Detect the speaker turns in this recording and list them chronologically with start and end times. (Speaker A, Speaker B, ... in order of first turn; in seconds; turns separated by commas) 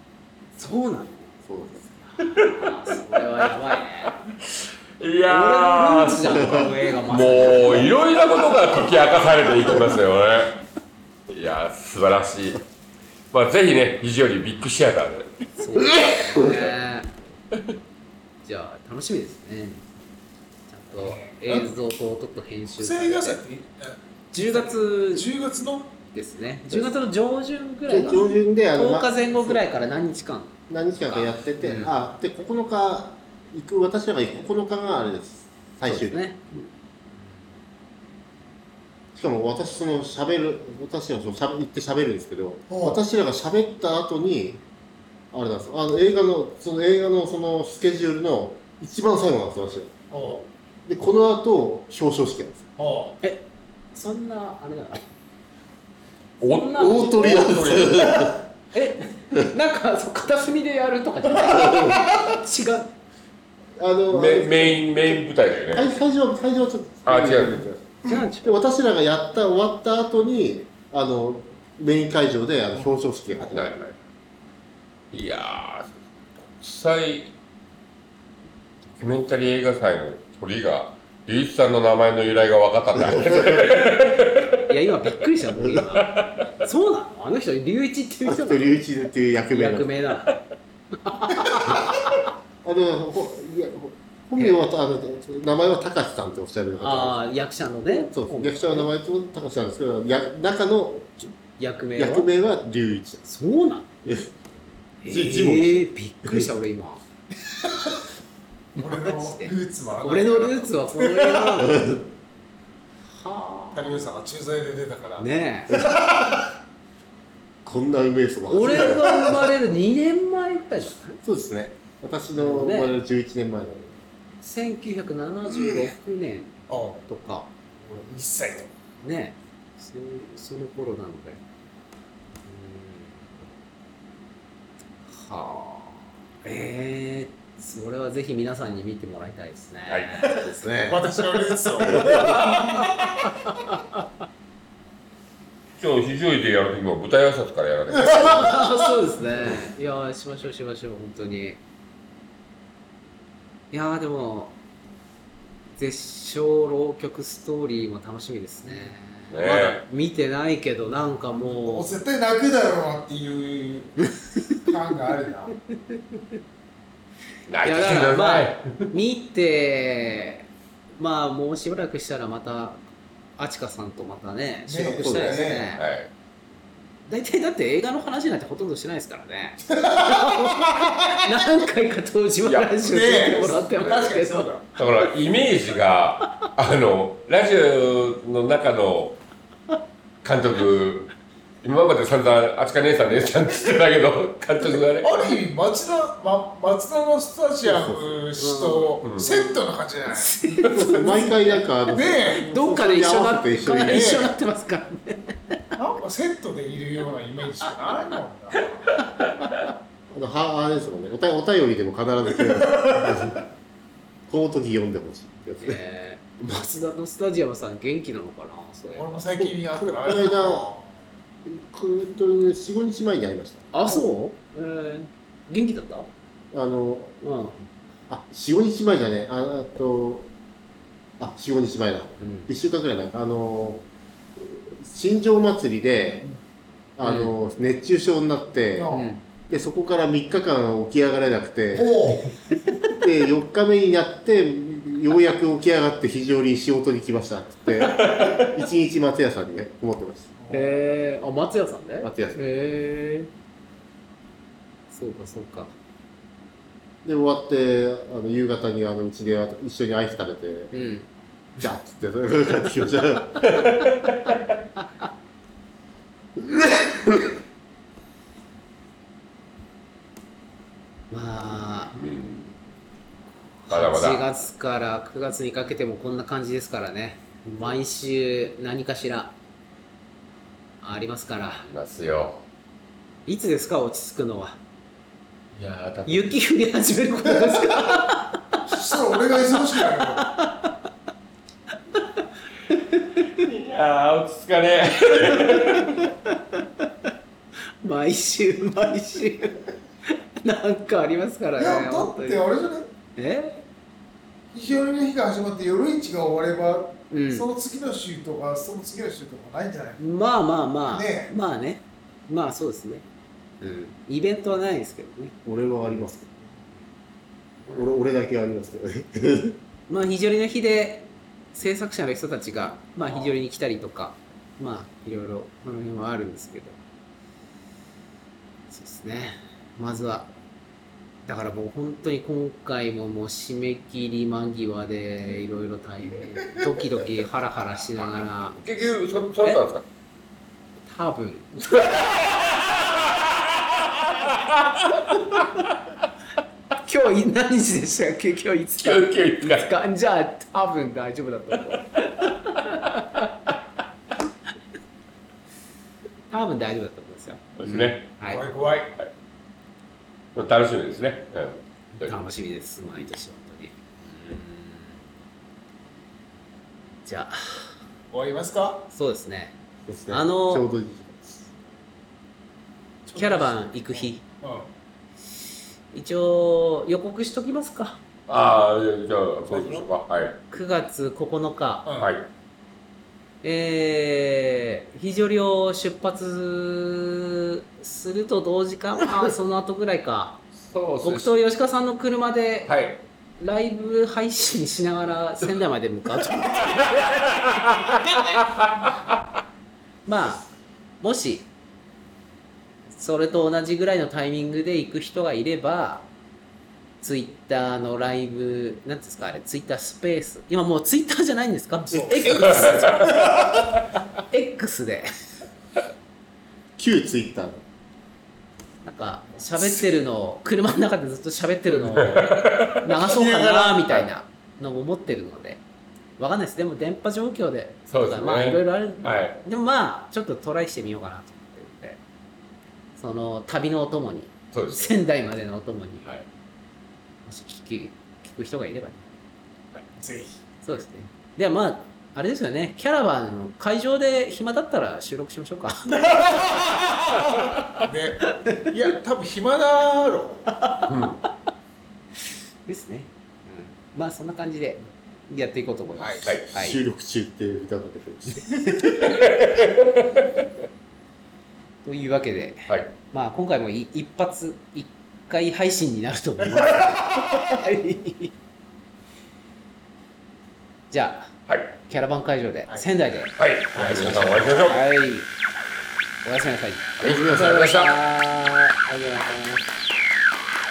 Speaker A: 0.6-1.3, Speaker B: 1.5-1.9, Speaker A: 2.0-4.2, Speaker C: 2.2-2.7, Speaker C: 5.0-10.6, Speaker A: 5.3-8.0, Speaker B: 6.4-6.7, Speaker C: 11.3-12.6, Speaker C: 13.3-16.8, Speaker A: 15.6-17.1, Speaker A: 18.4-19.9, Speaker A: 20.7-23.4, Speaker D: 21.0-21.7, Speaker D: 22.8-26.0, Speaker A: 24.3-25.3, Speaker A: 26.1-30.6, Speaker B: 27.9-29.6, Speaker B: 30.7-36.2, Speaker A: 31.1-31.9, Speaker A: 35.9-36.4, Speaker B: 39.1-44.6, Speaker D: 42.7-43.0, Speaker B: 45.3-50.0, Speaker D: 50.1-50.4, Speaker B: 50.9-52.7, Speaker D: 52.8-53.2, Speaker A: 53.2-55.0, Speaker C: 56.4-58.3, Speaker A: 56.4-57.4, Speaker B: 56.8-58.4, Speaker A: 58.7-62.9, Speaker B: 61.5-62.1, Speaker B: 63.8-73.8, Speaker C: 64.1-66.0, Speaker C: 67.1-67.7, Speaker A: 68.0-68.6, Speaker C: 73.4-74.0, Speaker C: 75.1-77.3, Speaker C: 79.0-84.6, Speaker B: 83.1-83.7, Speaker A: 84.7-88.8, Speaker C: 85.9-86.4, Speaker B: 88.3-89.9, Speaker A: 89.5-90.4, Speaker A: 91.0-92.2, Speaker B: 91.7-91.9, Speaker B: 92.6-97.2, Speaker A: 94.4-94.7, Speaker A: 96.8-98.9, Speaker B: 97.9-101.3, Speaker A: 101.6-102.3, Speaker B: 102.0-103.2, Speaker A: 103.2-103.9, Speaker B: 104.0-104.3, Speaker A: 105.0-107.0, Speaker B: 105.0-106.5, Speaker D: 107.5-108.0, Speaker D: 108.8-111.7, Speaker A: 108.8-112.0, Speaker B: 111.6-112.1, Speaker A: 113.2-114.1, Speaker D: 113.8-116.4, Speaker A: 115.2-115.9, Speaker B: 117.7-119.5, Speaker A: 118.5-121.2, Speaker B: 121.2-123.9, Speaker A: 122.4-123.0, Speaker A: 124.4-126.5, Speaker D: 126.7-127.0, Speaker A: 127.0-127.5, Speaker D: 127.8-128.7, Speaker A: 129.0-131.4, Speaker A: 132.4-133.2, Speaker A: 135.1-141.0, Speaker C: 139.9-140.4, Speaker D: 140.8-143.1, Speaker A: 141.8-144.1, Speaker C: 145.8-148.7, Speaker D: 147.9-148.7, Speaker A: 148.1-151.6, Speaker A: 153.7-154.6, Speaker A: 155.8-161.9, Speaker C: 159.3-159.8, Speaker D: 161.4-165.6, Speaker C: 167.5-168.8, Speaker A: 167.6-172.8, Speaker A: 173.4-175.8, Speaker D: 174.7-175.7, Speaker B: 175.0-175.4, Speaker C: 175.4-176.1, Speaker A: 177.1-184.6, Speaker D: 179.7-180.9, Speaker C: 182.4-182.8, Speaker D: 182.8-184.6, Speaker C: 184.7-189.2, Speaker C: 190.2-195.1, Speaker D: 194.6-202.5, Speaker B: 197.7-198.0, Speaker A: 198.4-199.4, Speaker C: 199.0-199.3, Speaker A: 200.1-201.4, Speaker B: 200.7-204.3, Speaker A: 202.4-205.8, Speaker D: 203.9-204.3, Speaker D: 205.8-208.8, Speaker A: 209.1-209.7, Speaker B: 210.1-213.4, Speaker B: 214.3-215.8, Speaker A: 215.6-219.1, Speaker D: 218.9-220.9, Speaker B: 219.4-220.7, Speaker B: 221.4-223.7, Speaker A: 223.7-226.1, Speaker B: 226.5-227.2, Speaker A: 227.2-227.6, Speaker B: 228.1-230.3, Speaker B: 231.2-233.8, Speaker A: 232.2-232.5, Speaker B: 234.4-236.3, Speaker B: 237.0-238.9, Speaker A: 237.0-237.3, Speaker D: 238.8-239.1, Speaker A: 238.9-239.2, Speaker B: 239.5-241.9, Speaker D: 241.7-242.4, Speaker B: 243.0-250.3, Speaker C: 247.8-248.5, Speaker D: 250.4-250.7, Speaker A: 250.5-253.3, Speaker B: 252.0-252.4, Speaker A: 254.9-255.8, Speaker B: 257.0-260.7, Speaker A: 260.7-261.1, Speaker B: 261.6-263.6, Speaker C: 263.5-264.4, Speaker B: 266.4-267.3, Speaker A: 271.1-272.0, Speaker C: 271.9-272.5, Speaker A: 273.7-279.4, Speaker C: 273.7-274.3, Speaker A: 280.8-281.7, Speaker C: 281.7-282.4, Speaker A: 283.3-284.6, Speaker C: 285.5-286.4, Speaker A: 286.1-288.4, Speaker D: 288.7-290.3, Speaker A: 289.9-290.8, Speaker A: 292.0-293.4, Speaker C: 293.4-296.1, Speaker A: 295.3-296.9, Speaker A: 297.8-302.4, Speaker D: 301.6-302.9, Speaker A: 303.2-303.6, Speaker D: 304.5-310.0, Speaker A: 307.1-307.5, Speaker A: 310.0-313.1, Speaker D: 310.9-311.3, Speaker A: 313.6-315.4, Speaker B: 315.4-316.3, Speaker B: 317.7-319.6, Speaker A: 319.9-326.8, Speaker A: 328.7-330.3, Speaker A: 331.3-338.9, Speaker C: 338.5-339.9, Speaker A: 340.9-341.7, Speaker C: 341.6-342.5, Speaker C: 344.0-345.2, Speaker A: 346.8-353.5, Speaker C: 348.8-349.7, Speaker A: 356.3-358.4, Speaker C: 357.6-358.1, Speaker D: 358.3-359.0, Speaker C: 360.4-362.2, Speaker A: 361.9-364.9, Speaker A: 367.1-367.7, Speaker D: 368.1-368.9, Speaker A: 368.9-369.6, Speaker B: 369.9-371.5, Speaker A: 370.1-370.7, Speaker D: 373.1-374.7, Speaker A: 373.2-374.2, Speaker A: 375.9-378.0, Speaker C: 378.3-380.4, Speaker A: 380.5-381.9, Speaker D: 381.9-382.1, Speaker C: 382.0-382.3, Speaker A: 383.4-390.4, Speaker C: 390.6-391.4, Speaker A: 391.0-392.8, Speaker C: 392.7-393.0, Speaker A: 393.4-397.0, Speaker C: 397.6-398.9, Speaker A: 400.1-400.5, Speaker A: 401.0-401.5, Speaker A: 403.0-406.1, Speaker A: 407.0-413.3, Speaker D: 411.8-413.6, Speaker A: 414.3-415.1, Speaker B: 416.8-417.6, Speaker A: 418.8-425.6, Speaker C: 422.0-422.9, Speaker D: 423.1-424.0, Speaker A: 426.2-432.0, Speaker C: 427.9-429.4, Speaker A: 433.0-436.1, Speaker C: 434.5-435.0, Speaker A: 437.3-439.0, Speaker D: 440.0-440.4, Speaker A: 440.6-446.5, Speaker D: 447.8-450.5, Speaker C: 450.9-451.2, Speaker A: 452.7-456.8, Speaker C: 456.0-456.5, Speaker B: 456.5-458.7, Speaker C: 458.9-460.3, Speaker A: 461.8-468.3, Speaker A: 470.9-471.3, Speaker C: 471.5-471.8, Speaker A: 471.9-475.3, Speaker C: 473.4-474.8, Speaker A: 476.2-479.6, Speaker C: 477.0-478.0